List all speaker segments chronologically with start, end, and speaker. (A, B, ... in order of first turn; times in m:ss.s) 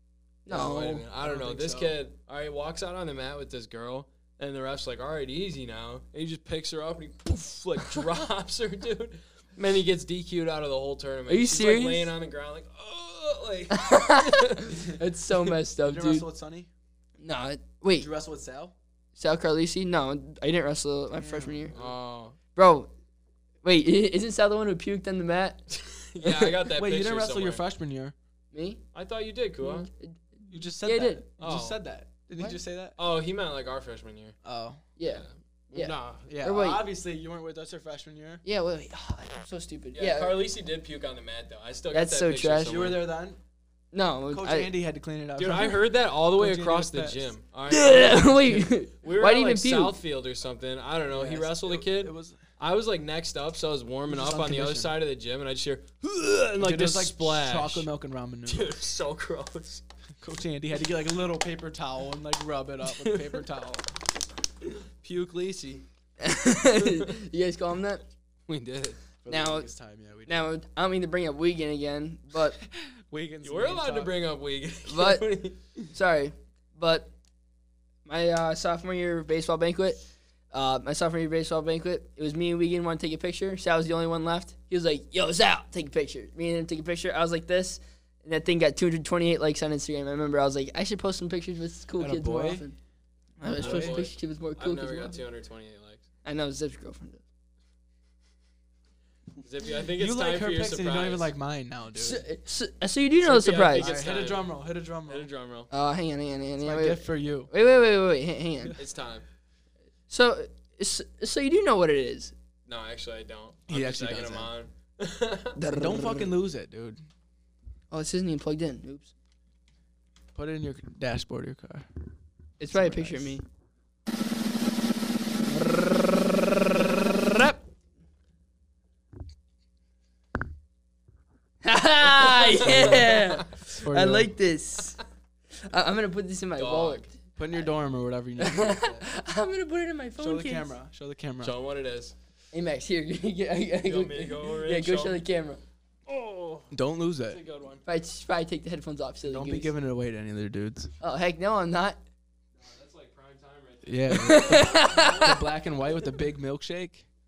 0:00.5-0:01.1 A
0:00.5-0:14.8 B
0:01.2-0:02.0 C
0:11.3-0:12.1 A
0:13.7-0:16.3 A
0:15.8-0:16.7 C
0:17.2-0:18.1 A
0:18.0-0:18.7 C
0:19.2-0:21.8 A
0:21.2-0:21.9 C
0:21.7-0:22.4 B
0:22.6-0:22.9 A
0:23.6-0:25.6 A
0:25.7-0:27.6 B
0:26.2-0:26.5 A
0:26.7-0:28.2 C
0:28.5-0:28.8 A
0:28.9-0:29.9 B
0:29.6-0:30.2 A
0:30.5-0:33.0 C
0:30.7-0:31.2 A
0:31.4-0:31.8 B
0:33.0-0:34.4 B
0:34.4-0:34.8 C
0:35.0-0:36.8 A
0:35.0-0:36.3 B
0:36.3-0:38.4 C
0:38.4-0:40.5 A
0:40.0-0:43.0 B
0:41.9-0:42.8 A
0:42.6-0:43.4 C
0:43.9-0:44.7 A
0:44.3-0:47.3 C
0:45.4-0:57.9 B
0:47.7-0:50.0 A
0:51.1-0:52.4 C
0:54.1-0:55.0 C
0:56.6-0:58.7 C
0:58.5-0:59.8 B
1:00.2-1:03.8 C
1:02.9-1:03.5 B
1:05.0-1:05.8 B
1:06.2-1:08.0 A
1:08.5-1:09.0 B
1:09.2-1:10.5 C
1:09.3-1:09.7 A
1:10.3-1:12.6 A
1:12.6-1:14.1 C
1:13.4-1:15.6 B
1:14.9-1:15.3 A
1:15.9-1:17.1 A
1:18.0-1:32.8 A
1:32.0-1:32.7 C
1:33.4-1:35.2 A
1:33.5-1:34.0 C
1:33.5-1:36.0 B
1:36.2-1:37.2 A
1:39.4-1:41.3 B
1:39.9-1:42.2 C
1:42.0-1:44.0 A
1:43.2-1:45.7 B
1:43.8-1:45.3 C
1:45.7-1:48.8 A
1:46.6-1:47.5 C
1:48.8-1:49.2 B
1:50.1-1:52.4 A
1:52.7-1:55.6 B
1:53.7-1:54.5 C
1:55.6-1:56.4 A
1:55.7-1:57.0 C
1:57.9-1:59.1 A
2:00.4-2:01.9 C
2:02.6-2:03.4 A
2:02.7-2:03.4 C
2:05.5-2:07.6 A
2:11.6-2:15.0 A
2:12.0-2:13.6 B
2:12.6-2:13.1 C
2:13.8-2:14.3 C
2:15.6-2:17.2 A
2:16.6-2:17.1 B
2:17.4-2:19.0 C
2:18.4-2:20.7 A
2:20.2-2:21.5 C
2:21.4-2:22.1 B
2:22.5-2:25.6 A
2:23.8-2:25.2 B
2:26.1-2:26.7 B
2:26.7-2:27.4 C
2:27.2-2:27.8 B
2:27.9-2:29.7 A
2:29.3-2:30.9 C
2:31.0-2:32.0 A
2:32.6-2:35.4 B
2:33.8-2:37.1 C
2:34.1-2:35.4 A